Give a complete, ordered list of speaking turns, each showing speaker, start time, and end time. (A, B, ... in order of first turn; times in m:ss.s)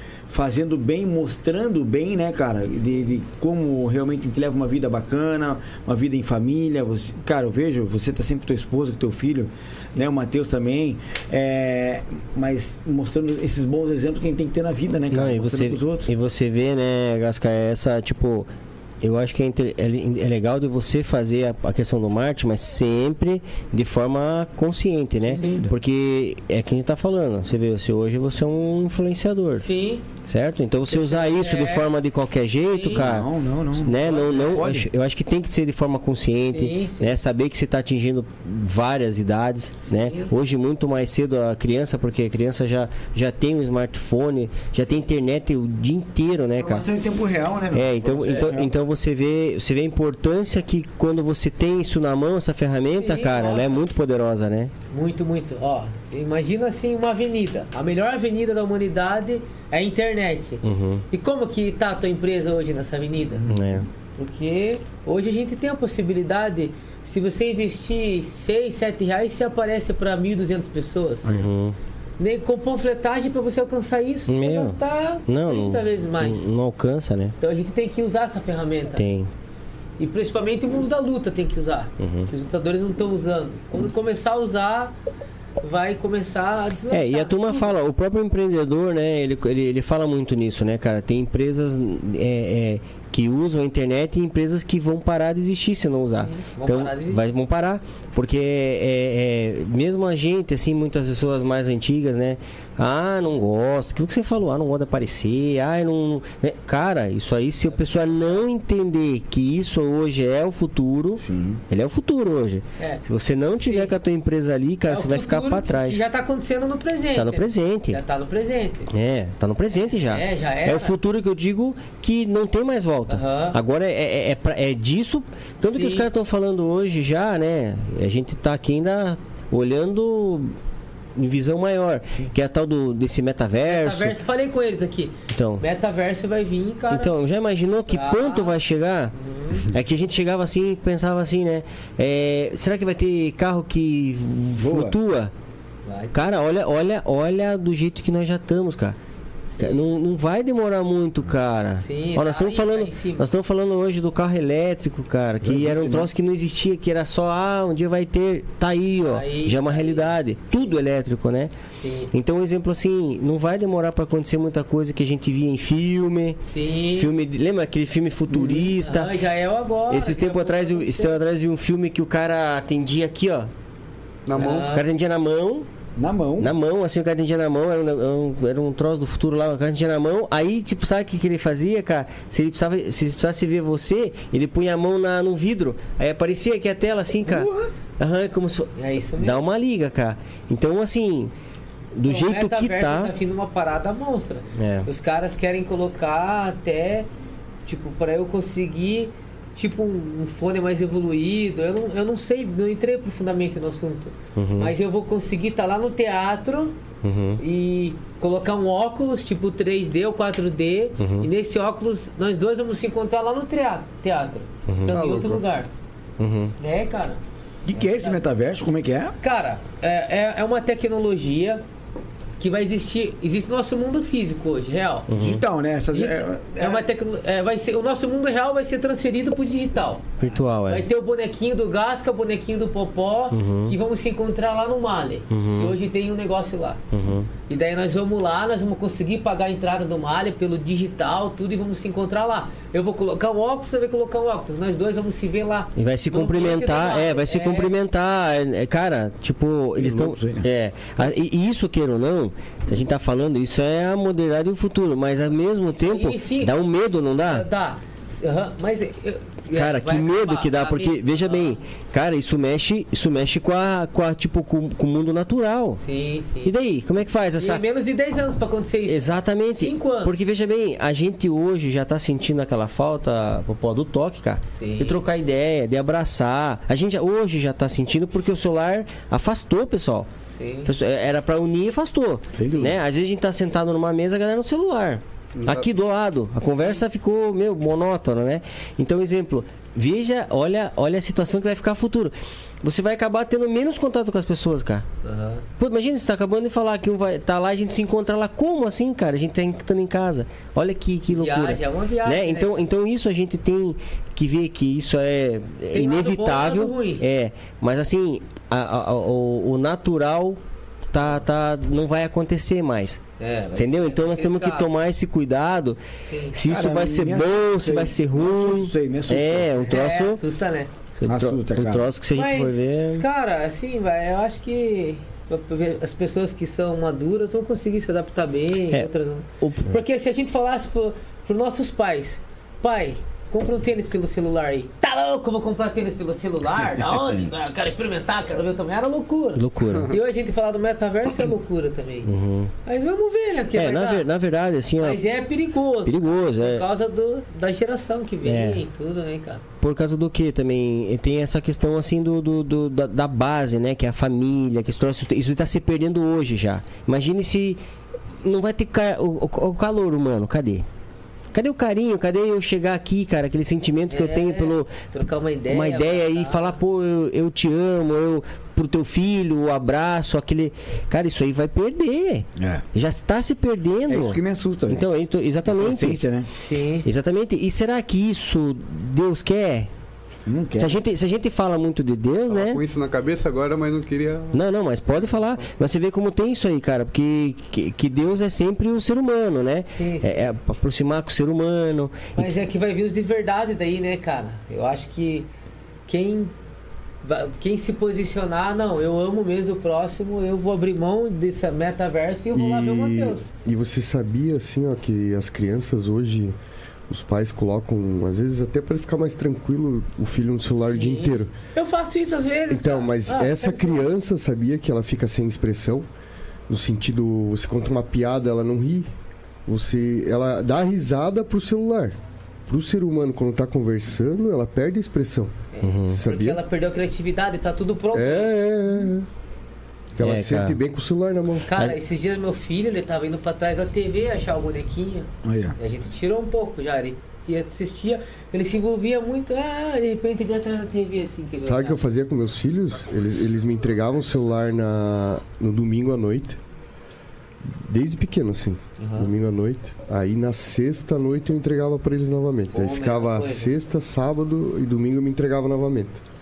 0:00.3-0:16.1 A
0:15.1-0:18.5 B
0:19.0-0:29.7 B
0:25.3-0:25.7 A
0:25.3-0:25.6 C
0:29.6-0:30.0 C
0:30.2-0:46.9 B
0:30.8-0:31.9 C
0:32.6-0:33.0 C
0:32.9-0:34.9 A
0:34.0-0:34.6 C
0:36.5-0:37.2 C
0:39.8-0:40.3 C
0:46.6-0:48.7 A
0:47.7-0:54.7 B
0:52.9-0:53.9 C
0:54.9-1:03.4 C
1:00.6-1:01.0 B
1:03.5-1:03.9 B
1:04.2-1:11.3 C
1:11.2-1:11.8 B
1:12.2-1:16.5 C
1:14.3-1:17.4 B
1:17.4-1:19.1 C
1:19.0-1:19.3 B
1:20.0-1:24.9 C
1:22.0-1:22.3 B
1:25.6-1:27.7 C
1:26.9-1:56.0 B
1:36.2-1:37.3 C
1:47.7-1:48.4 C
1:51.2-1:51.6 A
1:52.8-1:53.0 C
1:53.6-1:53.9 C
1:54.9-1:58.9 C
1:57.1-1:58.0 B
1:58.9-2:10.5 B
1:59.7-2:00.9 C
2:03.1-2:03.6 C
2:05.6-2:06.1 C
2:11.2-2:14.2 B
2:13.6-2:17.1 C
2:15.3-2:15.6 B
2:16.9-2:25.3 B
2:17.9-2:18.5 C
2:19.1-2:19.7 C
2:24.6-2:25.0 A
2:25.8-2:26.2 C
2:26.1-2:29.0 B
2:29.5-2:30.0 C
2:29.6-2:41.5 B
2:31.8-2:33.3 C
2:35.4-2:36.1 A
2:39.0-2:40.8 C
2:41.7-2:42.1 C
2:42.1-2:46.4 B
2:46.5-2:47.1 C
2:46.9-2:49.2 B
2:48.3-2:48.6 A
2:48.4-2:51.2 C
2:49.9-2:53.5 B
2:54.2-2:54.7 D
2:54.4-2:54.8 C
2:54.4-2:55.7 B
2:56.0-2:56.5 A
2:56.4-3:11.3 B
3:07.3-3:07.6 A
3:08.8-3:09.4 C
3:11.9-3:13.1 B
3:12.0-3:17.1 C
3:14.6-3:14.9 B
3:17.6-3:26.8 C
3:24.4-3:24.7 B
3:27.0-3:27.4 B
3:27.4-3:35.7 C
3:31.0-3:31.3 B
3:34.7-3:34.9 B
3:34.9-3:35.4 D
3:36.2-3:36.5 B
3:36.6-3:37.2 C
3:37.6-3:39.1 A
3:37.8-3:38.2 C
3:39.2-3:41.6 C
3:42.4-3:45.1 C
3:45.1-3:45.4 B
3:45.2-3:46.8 A
3:45.9-3:50.1 C
3:50.2-3:50.8 B
3:50.7-3:56.8 C
3:53.3-3:53.7 B
3:55.3-3:55.7 B
3:56.9-3:57.3 B
3:57.5-4:07.7 C
4:05.8-4:17.5 B
4:09.8-4:10.5 A
4:15.7-4:16.6 C
4:17.2-4:21.6 C
4:19.5-4:25.8 B
4:25.8-4:26.5 C
4:26.4-4:27.6 B
4:27.4-4:30.2 C
4:28.9-4:40.1 B
4:34.5-4:35.0 C
4:40.3-4:40.7 C
4:40.6-4:54.8 B
4:42.4-4:42.8 A
4:45.4-4:45.7 D
4:55.0-4:55.4 C
4:55.6-5:13.0 B
5:01.1-5:02.5 C
5:05.7-5:07.0 C
5:13.2-5:14.7 C
5:13.6-5:15.8 B
5:16.0-5:16.4 C
5:16.3-5:20.2 B
5:16.4-5:19.5 A
5:19.6-5:20.7 C
5:21.0-5:23.0 B
5:21.0-5:21.9 A
5:22.1-5:42.1 C
5:29.4-5:29.8 B
5:39.4-5:39.9 B
5:42.0-5:42.5 B
5:42.6-5:44.0 C
5:43.5-5:45.0 B
5:44.8-5:49.4 C
5:45.8-5:46.6 B
5:48.2-5:48.6 B
5:49.6-5:57.6 B
5:58.2-6:00.6 B
6:01.3-6:04.7 B
6:03.9-6:06.5 C
6:05.5-6:16.0 B
6:12.4-6:12.6 A
6:13.9-6:14.8 A
6:15.5-6:16.3 A
6:16.3-6:16.8 C
6:16.8-6:19.7 B
6:20.2-6:20.8 A
6:20.6-6:22.6 B
6:22.3-6:24.4 D
6:24.3-6:32.3 B
6:29.7-6:30.3 C
6:32.2-6:35.3 C
6:35.9-6:36.3 C
6:37.0-6:43.3 C
6:42.3-6:46.3 E
6:46.9-6:51.3 E
6:50.6-6:53.9 C
6:52.5-6:55.8 E
6:56.5-6:58.9 E
6:59.4-7:02.0 E
7:02.5-7:05.3 E
7:05.5-7:08.3 C
7:05.6-7:06.0 B
7:05.8-7:06.4 E
7:07.9-7:09.1 E
7:10.0-7:11.5 E
7:10.0-7:10.6 B
7:11.4-7:21.8 C
7:15.2-7:15.6 A
7:21.4-7:26.4 E
7:27.4-7:36.0 E
7:28.8-7:29.1 C
7:32.5-7:33.5 C